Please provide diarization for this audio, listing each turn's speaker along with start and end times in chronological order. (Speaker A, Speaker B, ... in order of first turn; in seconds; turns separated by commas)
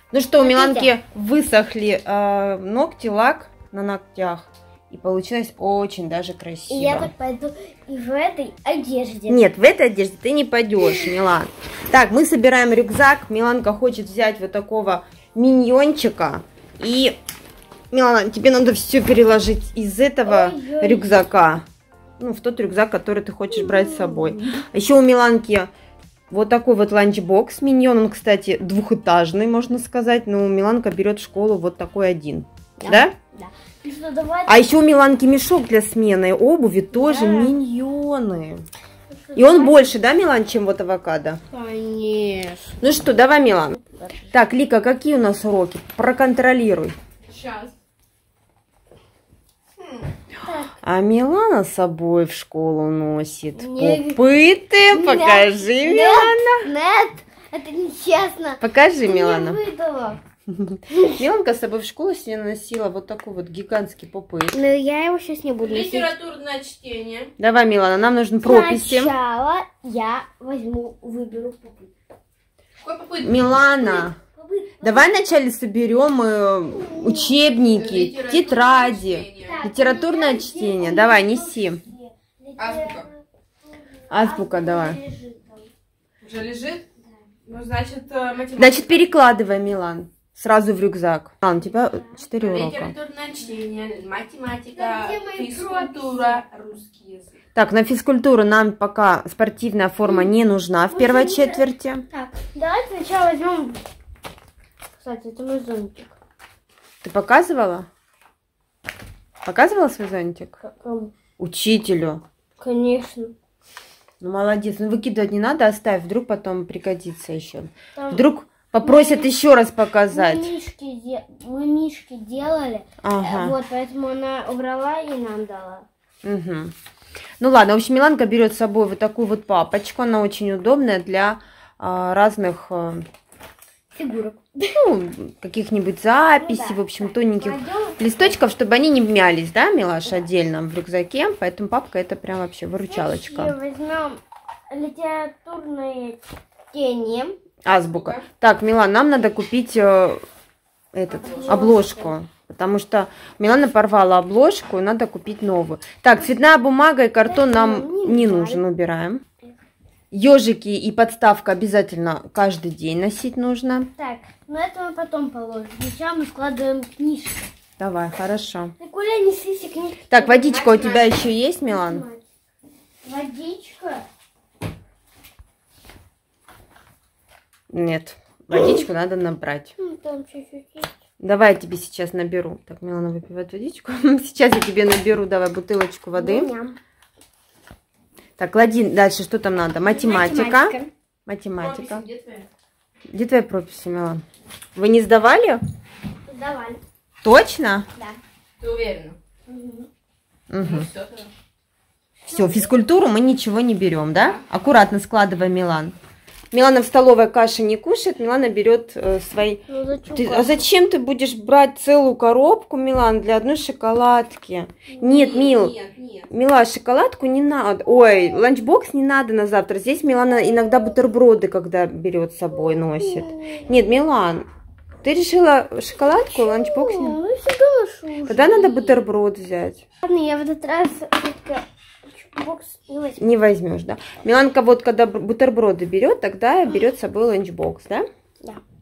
Speaker A: 0.1-7.1, Speaker B: 0.4-0.9, Speaker B: 6.7-9.5, Speaker A: 9.3-17.2, Speaker B: 10.8-11.1, Speaker A: 17.9-21.6, Speaker B: 20.2-21.3, Speaker A: 22.2-25.7, Speaker B: 23.5-24.6, Speaker A: 26.3-33.2, Speaker B: 32.8-34.7, Speaker A: 34.5-38.6, Speaker B: 36.9-37.5, Speaker B: 39.1-40.0, Speaker A: 39.4-41.4, Speaker B: 41.5-42.8, Speaker A: 42.8-43.8, Speaker B: 43.9-44.3, Speaker A: 44.3-47.0, Speaker C: 47.3-47.7, Speaker C: 49.8-50.0, Speaker B: 50.4-50.7, Speaker A: 50.8-56.7, Speaker B: 53.6-54.2, Speaker B: 54.9-60.2, Speaker A: 58.6-59.6, Speaker A: 60.5-64.6, Speaker B: 64.5-66.1, Speaker C: 65.6-67.3, Speaker A: 67.4-69.1, Speaker B: 68.4-71.9, Speaker C: 72.8-73.6, Speaker A: 73.2-74.2, Speaker B: 73.7-75.2, Speaker A: 74.8-81.8, Speaker B: 76.7-77.3, Speaker C: 77.7-79.6, Speaker B: 79.4-85.7, Speaker C: 82.6-83.1, Speaker A: 84.1-85.0, Speaker C: 86.2-86.9, Speaker C: 87.5-89.1, Speaker A: 88.5-92.9, Speaker B: 91.8-92.2, Speaker C: 92.4-97.4, Speaker B: 94.7-96.4, Speaker A: 97.5-102.0, Speaker B: 100.0-100.3, Speaker B: 100.9-103.8, Speaker B: 105.0-106.2, Speaker A: 107.0-107.9, Speaker A: 109.5-110.6, Speaker B: 110.6-111.1, Speaker A: 111.4-112.2, Speaker B: 112.6-113.3, Speaker A: 114.2-120.5, Speaker B: 118.0-118.3, Speaker B: 118.8-119.3, Speaker B: 120.1-125.8, Speaker A: 123.0-123.6, Speaker A: 126.2-126.7, Speaker A: 127.4-133.1, Speaker B: 133.9-134.8, Speaker A: 134.7-143.6, Speaker B: 136.4-138.4, Speaker B: 142.9-147.4, Speaker A: 147.7-150.2, Speaker C: 147.9-148.2, Speaker A: 150.9-159.2, Speaker C: 151.2-151.6, Speaker B: 151.2-152.2, Speaker B: 157.2-158.6, Speaker A: 160.1-163.9, Speaker B: 163.9-167.5, Speaker A: 167.8-168.7, Speaker B: 168.8-172.2, Speaker A: 170.1-172.1, Speaker B: 173.0-174.1, Speaker A: 177.7-179.7, Speaker B: 179.8-180.9, Speaker A: 181.2-186.5, Speaker B: 186.2-186.8, Speaker A: 188.4-192.1, Speaker B: 189.8-190.9, Speaker C: 191.6-192.5, Speaker A: 193.1-194.2, Speaker A: 194.8-195.6, Speaker B: 196.3-196.8, Speaker A: 197.2-197.9, Speaker C: 198.6-199.2, Speaker B: 199.5-199.9, Speaker A: 200.5-200.9, Speaker C: 200.6-201.3, Speaker B: 202.3-202.8, Speaker A: 202.3-205.9, Speaker A: 206.5-215.8, Speaker B: 209.7-210.7, Speaker C: 215.0-216.3, Speaker A: 216.3-224.5, Speaker B: 222.7-223.6, Speaker A: 225.0-227.2, Speaker B: 226.1-229.0, Speaker A: 228.3-229.8, Speaker B: 230.0-233.3, Speaker A: 233.2-238.1